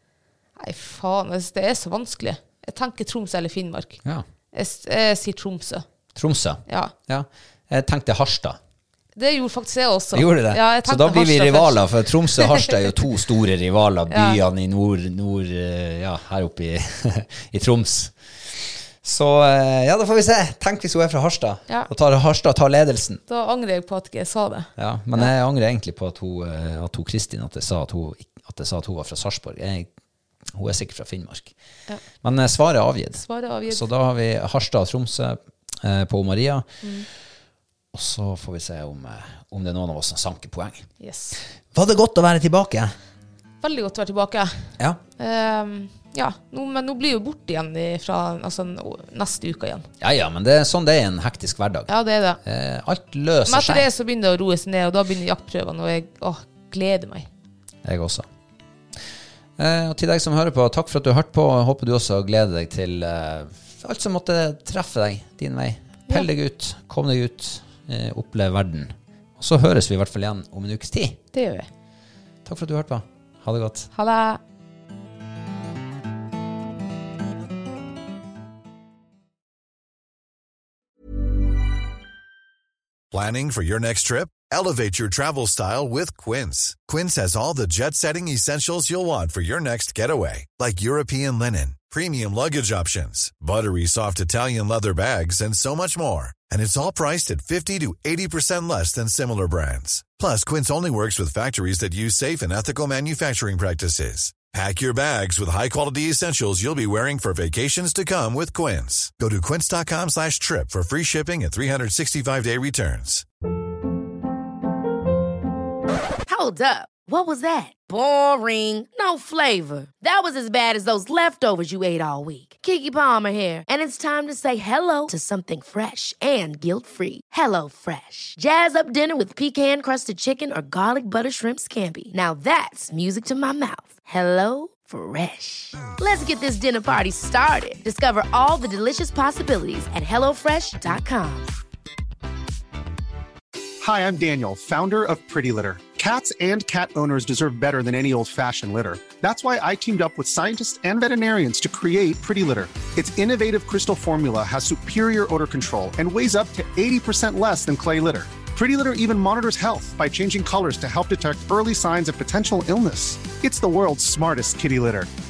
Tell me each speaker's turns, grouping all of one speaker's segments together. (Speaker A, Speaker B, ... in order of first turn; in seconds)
Speaker A: 0.6-4.0, 4.5-5.8, 6.7-6.9, 9.2-11.8, 12.3-12.7, 14.1-14.4, 23.3-25.3, 33.1-33.8, 36.8-37.1, 41.0-41.4, 43.6-49.9, 51.9-52.4, 53.5-57.3, 71.3-71.7, 73.9-74.4
Speaker B: 6.1-8.6, 10.1-23.2, 24.8-29.9, 30.5-31.5, 32.2-36.7, 37.9-40.9, 41.7-42.9, 50.0-51.9, 52.4-53.9, 57.8-58.3, 59.6-71.2, 72.4-73.9
Speaker C: 83.1-113.2
Speaker D: 116.2-141.5
Speaker E: 143.8-165.1